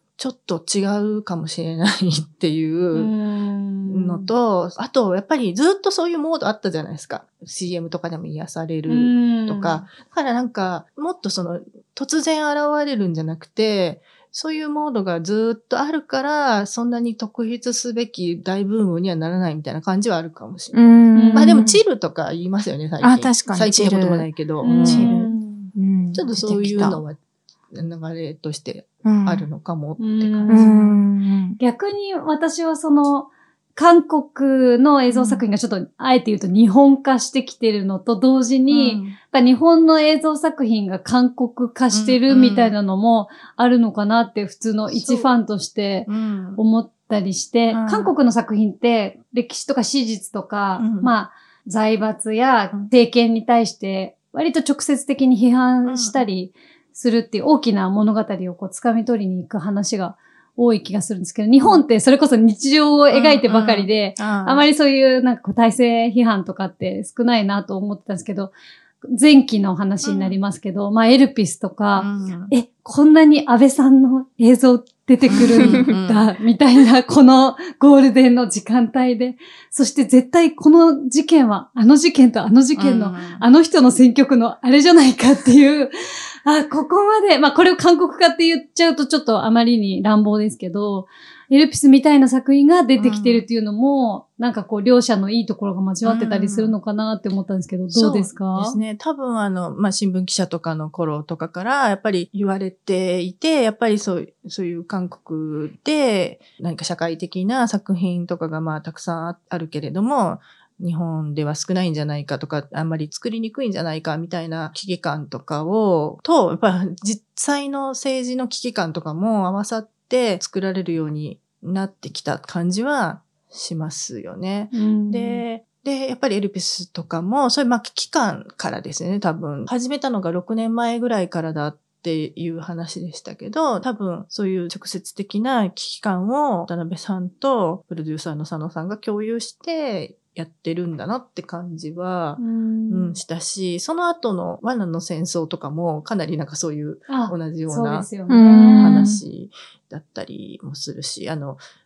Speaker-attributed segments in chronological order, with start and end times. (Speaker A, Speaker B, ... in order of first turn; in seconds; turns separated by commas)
Speaker A: 0.2-3.1, Speaker B: 2.9-4.3, Speaker A: 3.9-25.3, Speaker B: 8.9-9.9, Speaker C: 20.7-21.8, Speaker B: 21.1-21.7, Speaker C: 23.0-27.0, Speaker B: 24.6-25.7, Speaker A: 26.1-27.2, Speaker A: 27.7-30.7, Speaker C: 29.0-29.5, Speaker B: 30.0-31.0, Speaker C: 30.5-31.6, Speaker B: 31.6-85.9, Speaker A: 35.1-35.5, Speaker A: 38.7-39.2, Speaker A: 41.9-42.8, Speaker A: 44.9-45.3, Speaker A: 46.1-46.6, Speaker A: 47.7-48.1, Speaker A: 50.8-51.1, Speaker A: 55.9-56.2, Speaker A: 63.1-64.7, Speaker A: 70.0-70.4, Speaker A: 72.0-72.5, Speaker A: 75.3-76.3, Speaker A: 82.8-83.5, Speaker B: 86.4-98.8, Speaker A: 93.0-93.5, Speaker A: 96.0-96.8, Speaker A: 97.9-148.1, Speaker B: 124.7-125.5, Speaker B: 142.4-143.2, Speaker B: 147.1-149.1, Speaker C: 148.3-149.2, Speaker A: 148.7-151.6